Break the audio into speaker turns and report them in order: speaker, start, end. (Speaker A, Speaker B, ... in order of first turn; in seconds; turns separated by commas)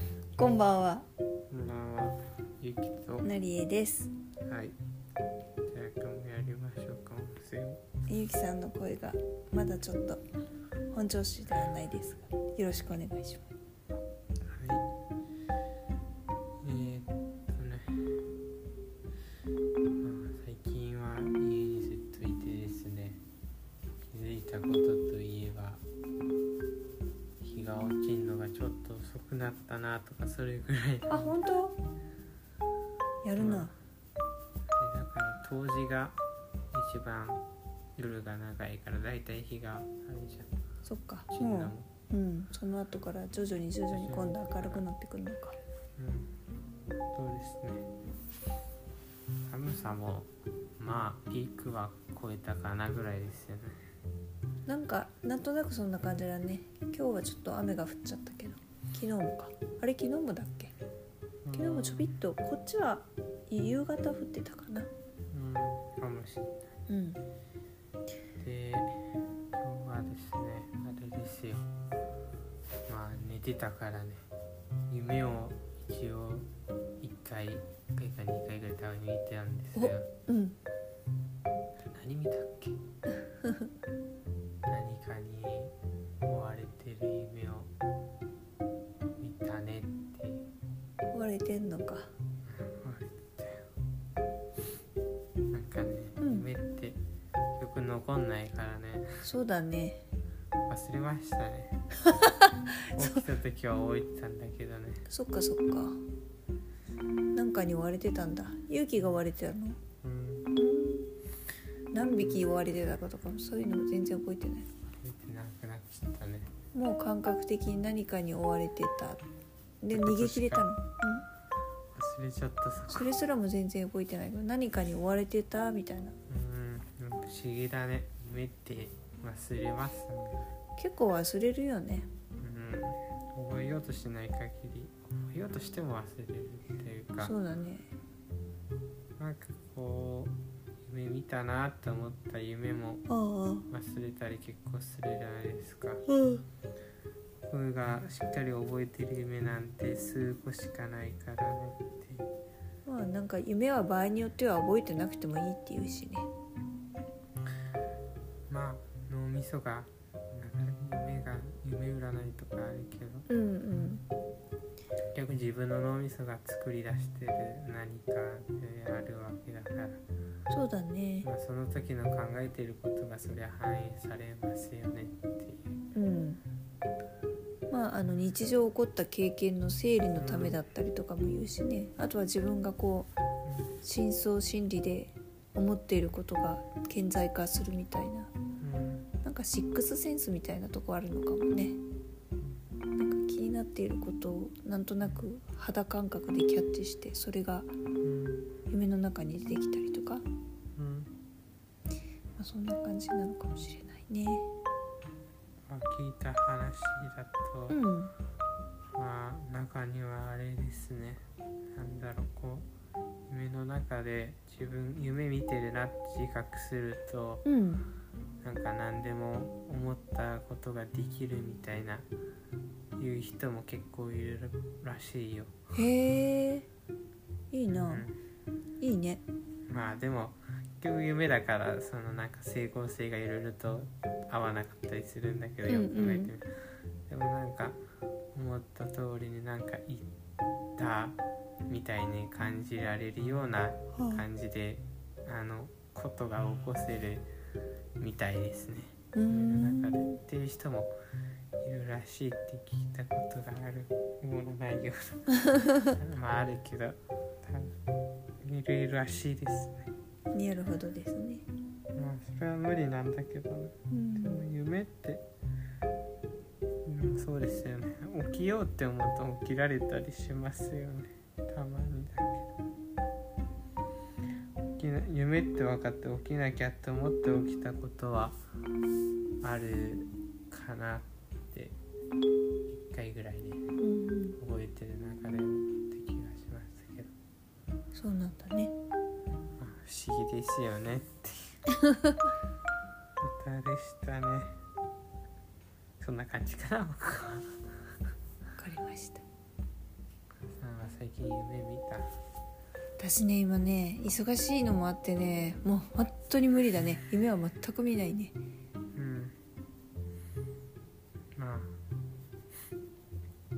Speaker A: 0.4-1.1, Speaker B: 1.5-3.3, Speaker A: 3.2-4.1, Speaker B: 4.5-4.8, Speaker B: 5.7-7.8, Speaker A: 8.1-10.2, Speaker A: 10.9-13.4, Speaker B: 14.5-14.9, Speaker B: 16.6-18.0, Speaker B: 20.0-23.2, Speaker B: 24.1-25.8, Speaker B: 27.4-31.4, Speaker A: 31.1-31.8, Speaker A: 33.2-33.7, Speaker B: 33.4-33.7, Speaker B: 34.7-36.2, Speaker B: 36.7-37.4, Speaker B: 38.0-40.5, Speaker A: 40.8-45.6, Speaker B: 41.3-41.9, Speaker B: 43.9-44.8, Speaker B: 46.0-46.3, Speaker B: 47.1-47.9, Speaker B: 49.5-53.8, Speaker A: 54.6-60.7, Speaker B: 61.4-62.1, Speaker A: 61.5-64.9, Speaker B: 65.3-66.7, Speaker A: 66.9-67.2, Speaker B: 68.4-71.7, Speaker B: 72.9-74.2, Speaker B: 74.9-76.5, Speaker B: 77.0-80.1, Speaker A: 79.8-80.5, Speaker B: 81.8-82.8, Speaker B: 84.7-85.7, Speaker B: 86.2-87.7, Speaker B: 89.2-90.5, Speaker A: 91.1-92.1, Speaker B: 92.5-93.6, Speaker B: 95.5-97.0, Speaker A: 96.2-96.5, Speaker B: 97.6-99.2, Speaker A: 99.2-100.0, Speaker B: 100.7-101.8, Speaker A: 102.0-103.2, Speaker B: 102.9-105.0, Speaker A: 105.1-106.0, Speaker A: 107.3-109.8, Speaker B: 110.0-110.5, Speaker A: 110.5-111.1, Speaker A: 111.9-114.7, Speaker B: 115.0-116.5, Speaker A: 116.7-119.2, Speaker A: 119.8-121.2, Speaker B: 119.9-120.7, Speaker B: 121.9-123.1, Speaker A: 122.9-126.2, Speaker B: 126.3-130.5, Speaker A: 130.8-132.1, Speaker B: 132.4-137.3, Speaker A: 137.2-137.9, Speaker B: 139.2-143.0, Speaker A: 143.1-143.7, Speaker B: 143.7-146.0, Speaker A: 146.1-146.4, Speaker B: 147.5-152.3, Speaker A: 152.8-156.3, Speaker B: 158.5-163.3, Speaker A: 163.3-164.0, Speaker B: 165.1-170.0, Speaker A: 170.5-171.3, Speaker B: 171.2-175.7, Speaker A: 175.9-176.4, Speaker A: 177.7-183.1, Speaker B: 180.1-180.6, Speaker B: 183.4-183.7, Speaker A: 183.8-188.3, Speaker B: 188.6-189.1, Speaker A: 189.2-191.8, Speaker A: 192.9-197.7, Speaker B: 198.0-198.5, Speaker A: 198.7-200.2, Speaker B: 200.8-201.1, Speaker A: 202.4-204.5, Speaker B: 205.7-207.8, Speaker A: 207.7-208.1, Speaker B: 208.9-211.2, Speaker B: 211.7-212.7, Speaker B: 213.3-217.4, Speaker A: 217.4-217.8, Speaker B: 218.4-222.1, Speaker B: 223.0-225.5, Speaker A: 225.7-226.7, Speaker A: 227.5-228.1, Speaker B: 227.7-228.2, Speaker A: 228.8-229.2, Speaker B: 229.7-236.5, Speaker A: 235.7-236.3, Speaker B: 237.1-237.8, Speaker B: 238.3-240.1, Speaker B: 240.8-241.2, Speaker B: 241.7-247.3, Speaker A: 244.0-244.2, Speaker B: 248.0-250.9, Speaker A: 249.1-250.2, Speaker B: 251.6-257.7, Speaker B: 258.4-259.9, Speaker A: 260.3-261.4, Speaker B: 261.9-265.2, Speaker A: 263.9-264.4, Speaker B: 266.8-272.5, Speaker B: 274.8-278.4, Speaker B: 279.4-281.8, Speaker B: 282.7-283.7, Speaker A: 283.8-284.4, Speaker B: 284.4-287.1, Speaker A: 287.9-288.7, Speaker B: 289.6-291.6, Speaker A: 291.9-292.2, Speaker B: 293.2-294.6, Speaker B: 296.0-297.5, Speaker A: 298.6-299.2, Speaker B: 300.4-302.1, Speaker A: 303.0-308.3, Speaker B: 308.9-309.3, Speaker B: 311.4-311.8